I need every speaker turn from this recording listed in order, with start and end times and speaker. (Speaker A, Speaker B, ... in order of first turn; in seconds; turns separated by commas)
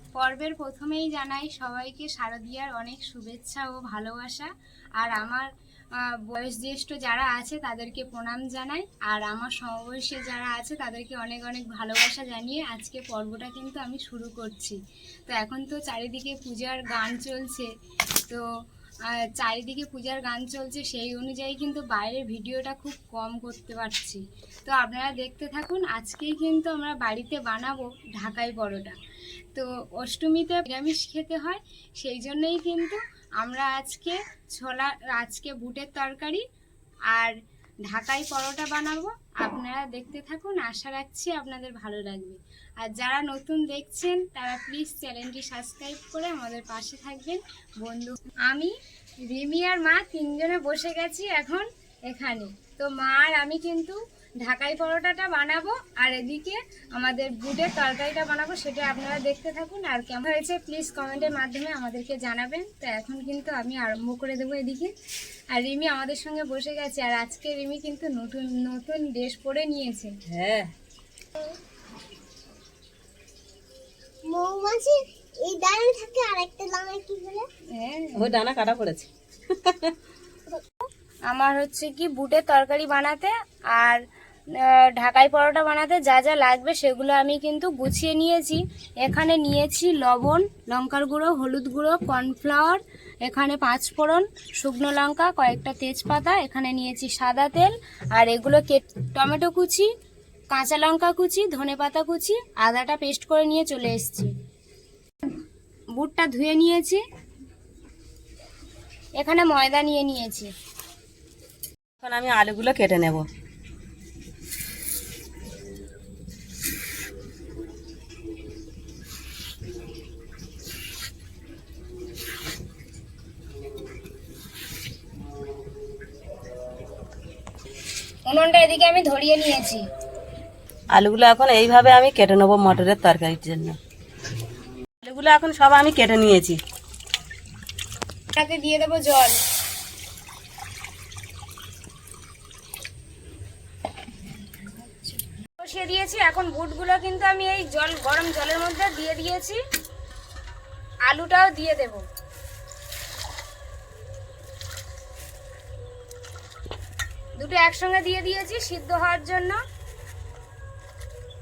Speaker A: 0.2-17.7, Speaker A: 19.1-29.0, Speaker A: 29.5-36.5, Speaker A: 37.1-64.9, Speaker A: 65.5-70.2, Speaker B: 70.3-70.7, Speaker C: 74.3-77.5, Speaker A: 77.7-78.3, Speaker B: 78.2-80.0, Speaker A: 81.3-84.0, Speaker A: 84.5-99.9, Speaker A: 100.5-104.3, Speaker A: 106.0-107.0, Speaker A: 109.2-110.5, Speaker B: 112.0-113.3, Speaker A: 128.3-129.8, Speaker B: 130.9-133.8, Speaker B: 135.0-136.6, Speaker A: 138.3-139.4, Speaker A: 145.6-149.6, Speaker A: 151.1-152.0, Speaker A: 157.4-159.6